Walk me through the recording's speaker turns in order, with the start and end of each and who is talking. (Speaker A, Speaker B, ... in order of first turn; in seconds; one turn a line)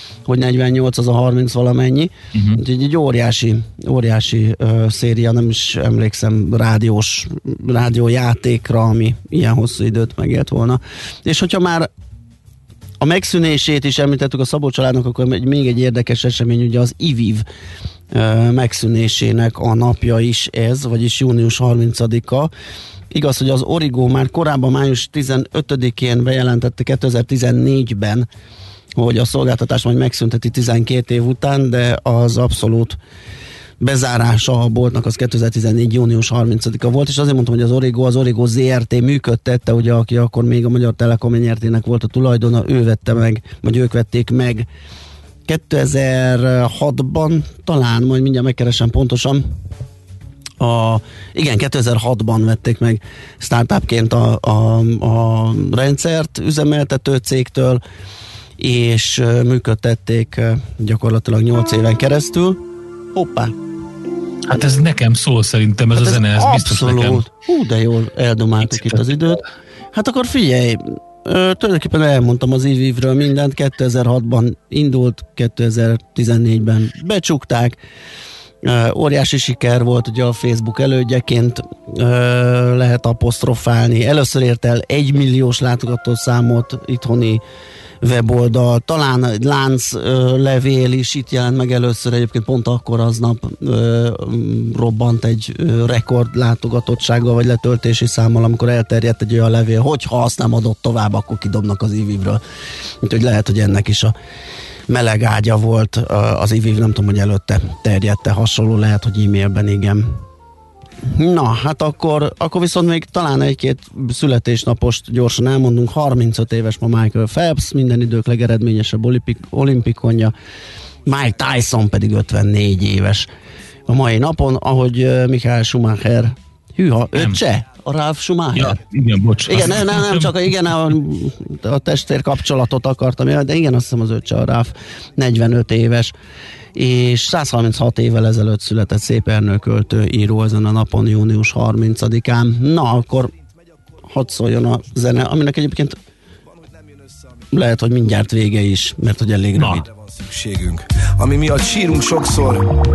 Speaker A: 0.2-11.9
Speaker B: 2.3-2.6
Speaker A: 13.0-17.4
Speaker A: 18.1-22.5
Speaker A: 23.1-28.3
Speaker A: 28.9-33.0
Speaker A: 33.8-44.7
Speaker A: 45.5-49.4
Speaker A: 50.6-57.8
Speaker A: 58.6-62.6
Speaker A: 63.1-63.5
Speaker B: 64.5-67.2
Speaker A: 65.9-69.4
Speaker B: 68.7-69.2
Speaker A: 69.9-77.8
Speaker A: 78.6-87.4
Speaker A: 88.0-102.4
Speaker A: 103.0-104.1
Speaker A: 104.9-110.2
Speaker A: 111.0-120.3
Speaker A: 121.1-123.3
Speaker A: 123.9-128.8
Speaker B: 128.5-130.5
Speaker A: 129.5-136.1
Speaker A: 136.7-143.3
Speaker A: 144.1-146.0
Speaker A: 147.5-149.9
Speaker B: 149.5-149.8
Speaker C: 150.1-152.7